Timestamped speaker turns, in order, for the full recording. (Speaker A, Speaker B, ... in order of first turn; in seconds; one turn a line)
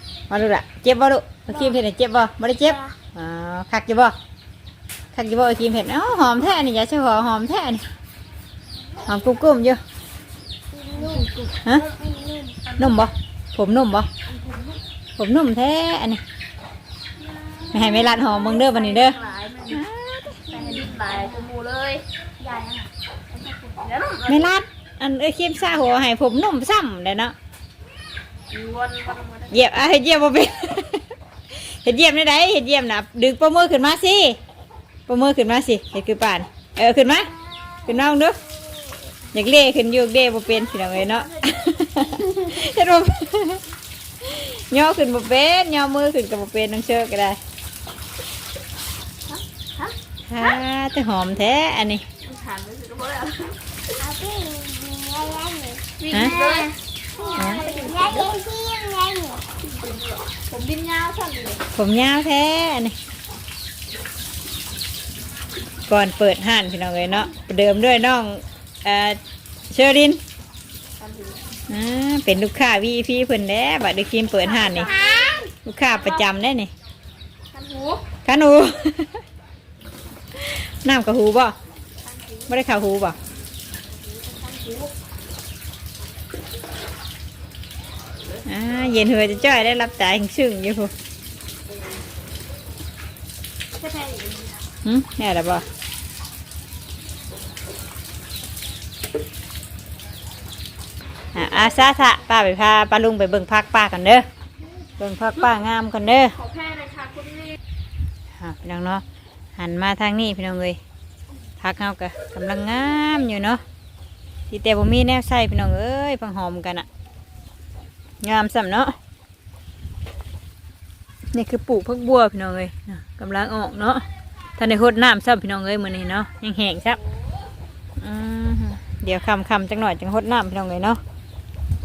Speaker A: 0.3-4.1
Speaker B: 1.5-1.8
Speaker B: 2.6-2.9
Speaker A: 5.1-7.8
Speaker A: 9.1-9.8
Speaker B: 10.7-11.3
Speaker C: 10.9-11.8
Speaker B: 11.8-12.8
Speaker A: 12.8-14.1
Speaker C: 14.3-14.7
Speaker A: 15.2-16.2
Speaker C: 17.3-19.8
Speaker A: 17.7-20.5
Speaker B: 17.7-18.4
Speaker B: 20.5-21.5
Speaker C: 20.5-22.1
Speaker B: 22.4-23.9
Speaker C: 23.8-24.5
Speaker A: 24.2-27.3
Speaker C: 28.5-29.6
Speaker A: 29.5-34.4
Speaker A: 35.1-37.3
Speaker B: 37.5-37.9
Speaker A: 37.8-38.4
Speaker A: 39.3-43.6
Speaker A: 44.2-47.4
Speaker C: 49.3-49.9
Speaker A: 50.3-52.0
Speaker C: 52.2-53.8
Speaker B: 54.0-59.4
Speaker C: 56.0-58.3
Speaker A: 57.4-57.6
Speaker C: 59.6-61.6
Speaker A: 61.7-62.9
Speaker A: 65.9-69.2
Speaker A: 69.7-70.2
Speaker C: 71.0-71.4
Speaker A: 71.7-74.9
Speaker C: 74.4-76.2
Speaker B: 74.7-75.5
Speaker A: 75.6-76.7
Speaker C: 77.5-78.0
Speaker A: 78.2-79.2
Speaker A: 80.3-81.5
Speaker C: 82.0-82.5
Speaker A: 82.5-83.2
Speaker C: 84.1-84.9
Speaker A: 88.5-90.9
Speaker C: 93.8-94.6
Speaker A: 94.8-95.6
Speaker A: 101.3-104.2
Speaker A: 105.0-106.4
Speaker C: 106.3-107.6
Speaker A: 108.4-109.0
Speaker A: 109.6-110.8
Speaker A: 111.6-113.6
Speaker A: 114.5-116.8
Speaker A: 118.2-118.9
Speaker A: 121.3-124.0
Speaker A: 124.6-127.0
Speaker A: 128.0-131.0